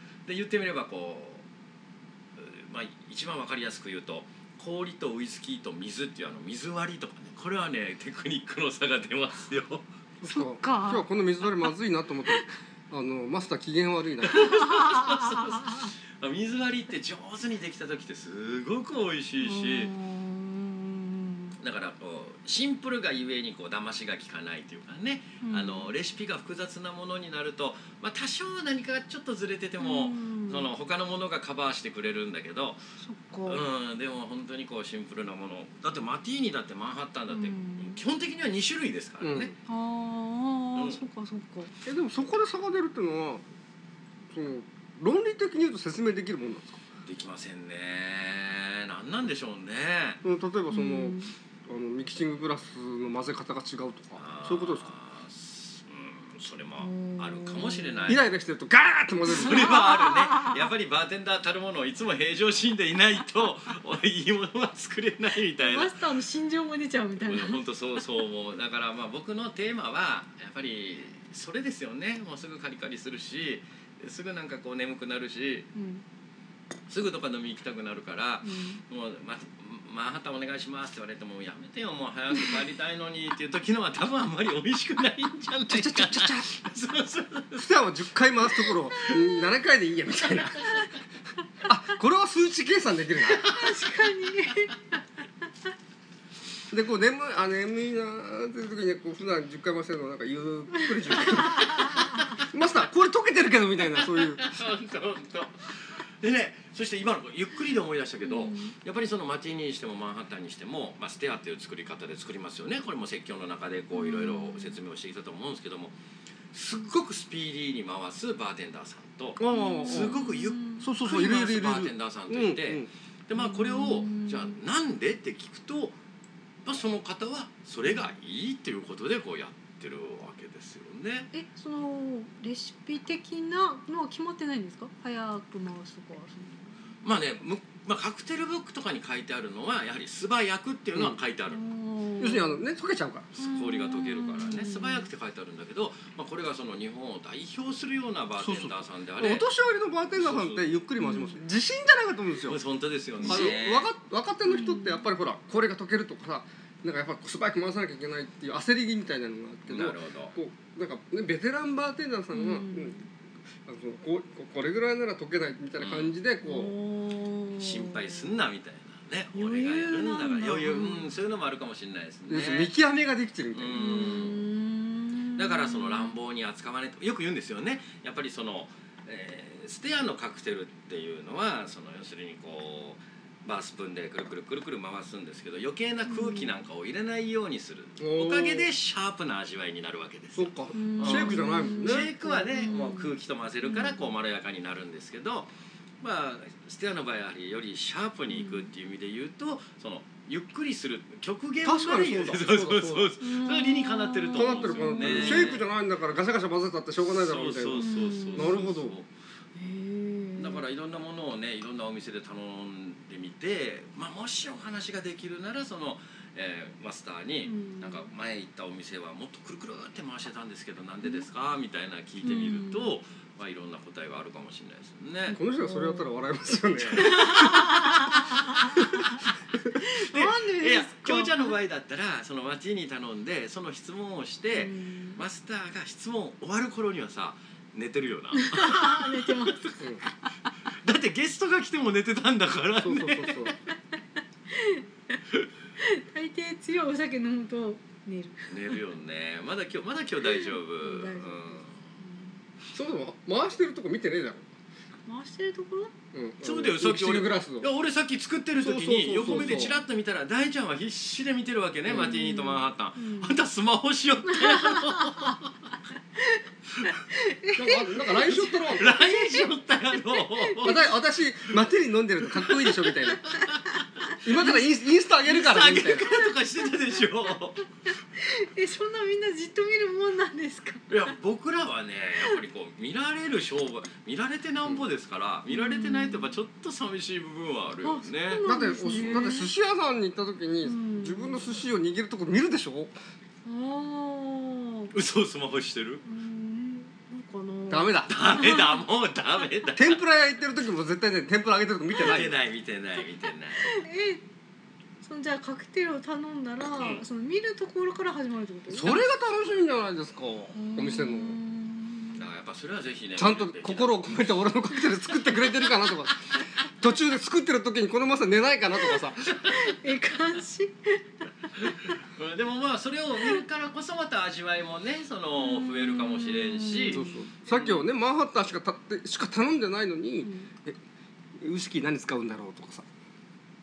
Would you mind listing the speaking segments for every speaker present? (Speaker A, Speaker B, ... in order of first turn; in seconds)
Speaker A: 0.2-1.4, 2.4-9.9, 14.3-19.9, 21.6-32.8, 33.5-39.5, 40.7-41.0, 47.0-50.2, 54.1-58.2, 59.3-66.0, 67.2-75.7, 76.9-87.8, 88.5-89.2, 93.5-93.8, 104.4-115.9, 116.5-126.0, 126.6-131.3, 137.0-141.6, 143.3-149.4, 150.1-150.8, 152.5-153.9, 159.7-160.3, 165.8-166.1, 167.6-172.7, 173.5-174.4, 175.3-195.5, 196.0-205.6, 207.1-209.1, 210.3-225.4, 226.7-227.8, 230.0-239.6, 240.8-243.5, 248.5-251.8, 256.4-265.5, 268.1-271.0, 272.3-273.6, 275.2-277.6, 280.9-289.2, 294.9-296.0, 298.1-300.0, 301.9-303.8, 306.8-307.0, 312.1-314.3, 321.6-327.9
Speaker B: 10.2-14.5, 39.2-39.5, 41.8-43.4, 44.3-46.8, 50.2-54.8, 58.1-59.8, 85.7-86.5, 87.6-90.7, 91.7-93.5, 96.7-101.8, 102.5-104.5, 119.4-120.2, 120.8-122.9, 142.2-143.3, 148.4-152.6, 153.2-163.0, 163.6-166.7, 172.3-174.2, 188.0-188.7, 190.3-192.1, 201.6-203.1, 204.3-208.9, 225.3-227.2, 242.8-243.5, 252.7-254.5, 256.1-257.7, 258.6-259.8, 261.9-262.1, 267.5-268.9, 270.6-273.2, 274.2-276.1, 288.4-292.9, 297.7-298.1, 299.8-302.4, 308.7-311.4, 313.2-316.2, 316.8-319.3, 326.9-330.8, 331.4-332.9
Speaker C: 10.2-11.1, 14.3-15.9, 19.4-21.6, 25.4-25.9, 29.8-30.7, 33.0-33.6, 37.3-38.0, 39.7-41.7, 50.7-51.3, 56.8-58.2, 59.3-60.7, 65.6-67.6, 75.7-76.0, 78.4-78.8, 93.4-94.8, 101.5-102.0, 108.2-108.8, 113.9-114.8, 119.4-120.9, 123.3-124.6, 131.3-136.8, 141.5-142.6, 143.4-145.1, 151.0-151.4, 154.4-155.1, 162.3-163.1, 166.4-168.3, 169.3-171.1, 173.8-176.2, 186.1-186.5, 190.7-193.1, 193.6-194.1, 198.3-198.7, 203.2-205.6, 207.8-208.6, 209.5-210.6, 217.4-218.1, 222.2-222.9, 225.3-226.2, 227.0-229.2, 229.8-231.5, 234.5-235.2, 238.3-239.7, 244.5-245.2, 245.8-248.7, 250.4-252.4, 255.1-255.9, 261.9-263.4, 264.3-265.4, 266.2-270.9, 274.4-274.6, 278.1-280.9, 285.5-286.3, 287.8-289.5, 290.6-291.6, 293.4-294.9, 296.0-298.8, 303.6-304.2, 305.0-309.1, 310.5-312.2, 319.5-322.0, 325.4-327.3, 330.2-330.5